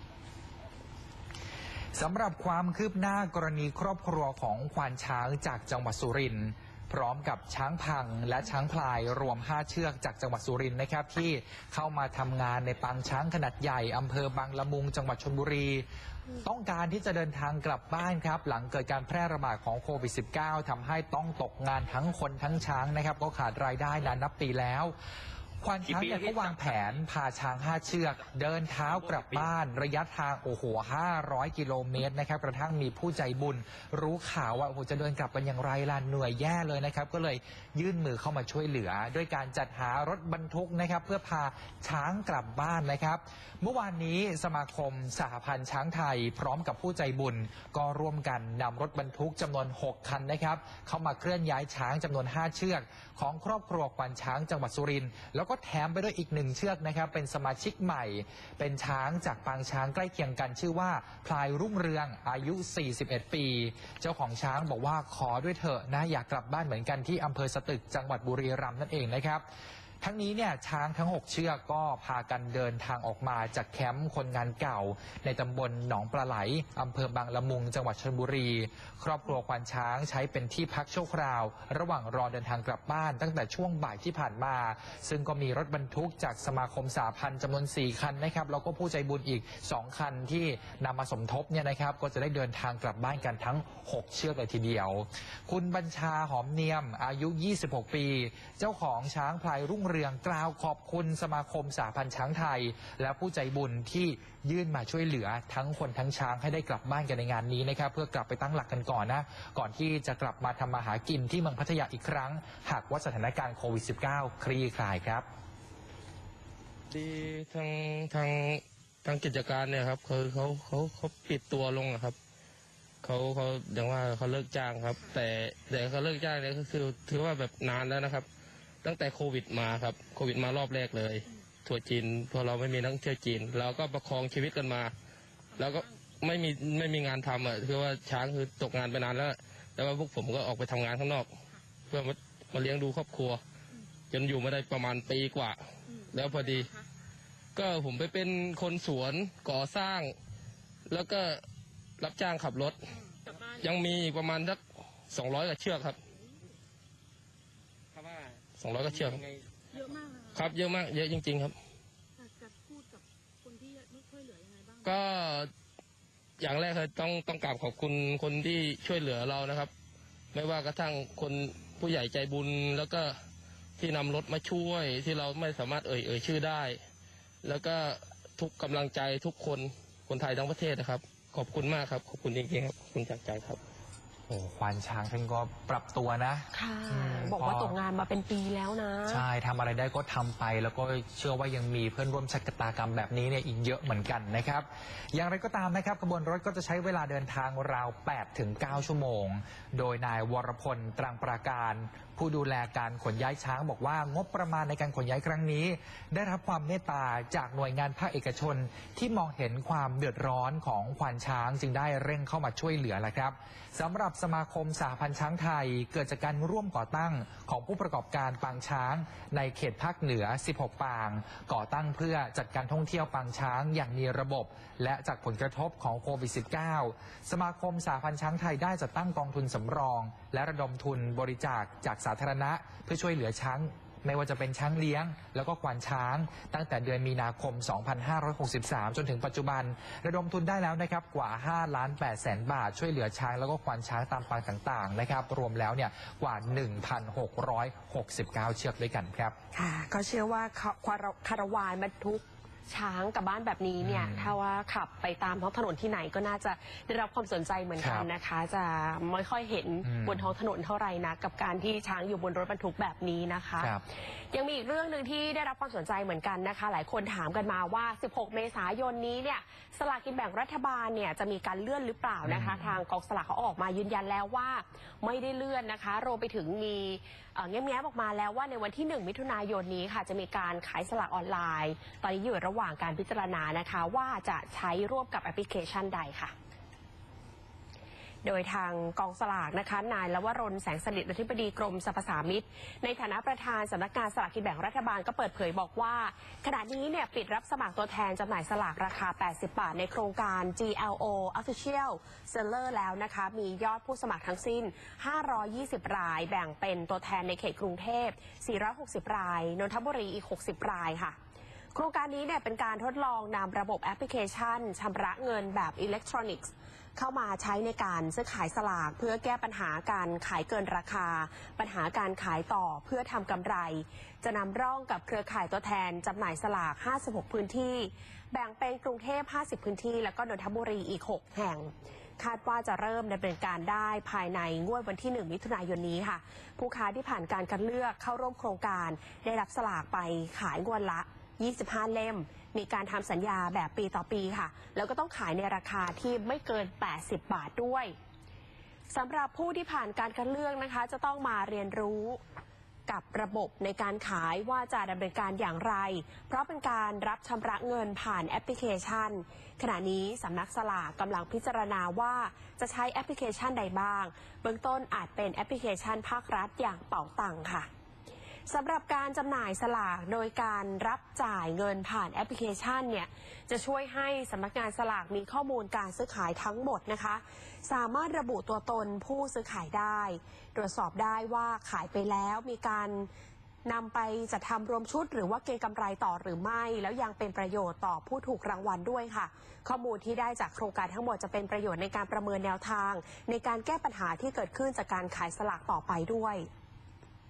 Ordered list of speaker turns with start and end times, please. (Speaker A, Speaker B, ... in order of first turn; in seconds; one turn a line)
Speaker A: 1.9-15.8
Speaker A: 16.4-24.9
Speaker A: 25.6-69.4
Speaker A: 70.0-115.2
Speaker B: 116.9-122.2
Speaker B: 123.0-128.2
Speaker B: 128.8-134.9
Speaker C: 135.6-135.9
Speaker B: 135.6-141.3
Speaker B: 141.9-143.4
Speaker B: 144.1-146.7
Speaker C: 145.9-146.8
Speaker B: 147.6-150.1
Speaker B: 150.9-151.4
Speaker B: 152.0-152.8
Speaker B: 153.5-154.6
Speaker B: 155.1-156.0
Speaker B: 158.6-159.2
Speaker C: 159.8-160.3
Speaker B: 160.3-161.5
Speaker C: 162.2-164.9
Speaker B: 164.8-165.5
Speaker B: 166.4-169.7
Speaker B: 170.3-173.1
Speaker B: 173.8-176.8
Speaker B: 177.4-183.6
Speaker A: 184.3-187.8
Speaker D: 186.5-189.2
Speaker A: 189.1-249.3
Speaker D: 249.5-263.7
Speaker A: 253.8-254.3
Speaker A: 257.8-258.1
Speaker A: 259.8-260.3
Speaker D: 264.3-286.3
Speaker A: 272.2-272.8
Speaker D: 288.2-311.1
Speaker D: 311.7-347.9
Speaker D: 348.9-352.2
Speaker D: 352.9-367.7
Speaker D: 368.5-383.1
Speaker D: 383.6-396.5